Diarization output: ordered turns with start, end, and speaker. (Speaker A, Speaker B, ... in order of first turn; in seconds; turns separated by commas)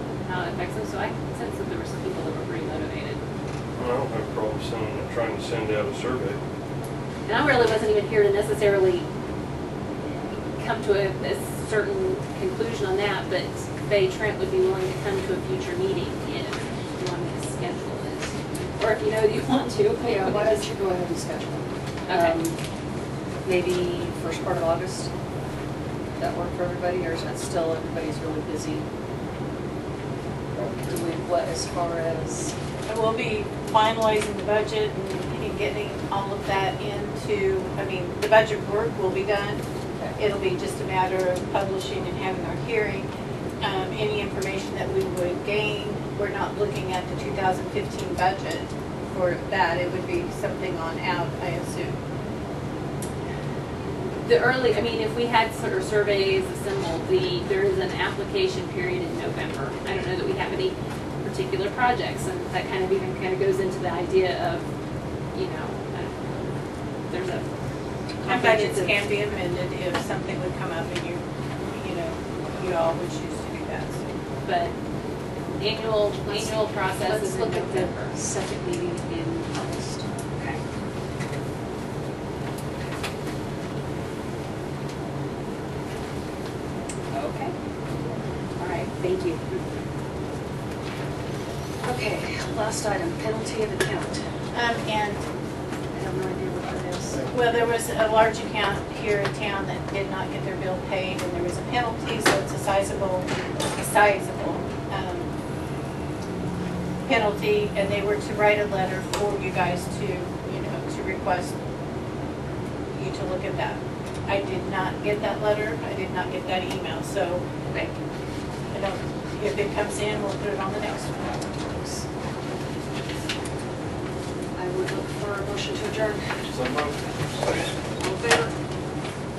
Speaker A: 0.2-3.2, Speaker B: 3.8-6.4, Speaker A: 7.3-9.1, Speaker A: 10.6-20.7, Speaker C: 20.0-22.6, Speaker A: 22.1-22.4, Speaker C: 23.4-25.1, Speaker C: 26.2-28.9, Speaker C: 30.6-32.5, Speaker D: 32.9-39.6, Speaker D: 40.2-43.1, Speaker D: 43.6-52.0, Speaker A: 54.2-64.7, Speaker A: 65.3-66.6, Speaker A: 67.1-67.5, Speaker C: 68.2-69.0, Speaker D: 68.3-74.1, Speaker A: 74.4-74.7, Speaker A: 75.6-78.2, Speaker C: 76.3-80.1, Speaker A: 80.3-80.6, Speaker A: 87.1-87.5, Speaker A: 88.6-89.6, Speaker C: 91.8-94.2, Speaker D: 94.5-95.2, Speaker C: 95.9-97.2, Speaker D: 97.3-105.3, Speaker D: 107.1-111.6, Speaker D: 112.9-117.4, Speaker D: 118.7-121.5, Speaker C: 121.6-122.0, Speaker C: 124.6-126.6, Speaker B: 126.5-127.8, Speaker C: 127.6-128.5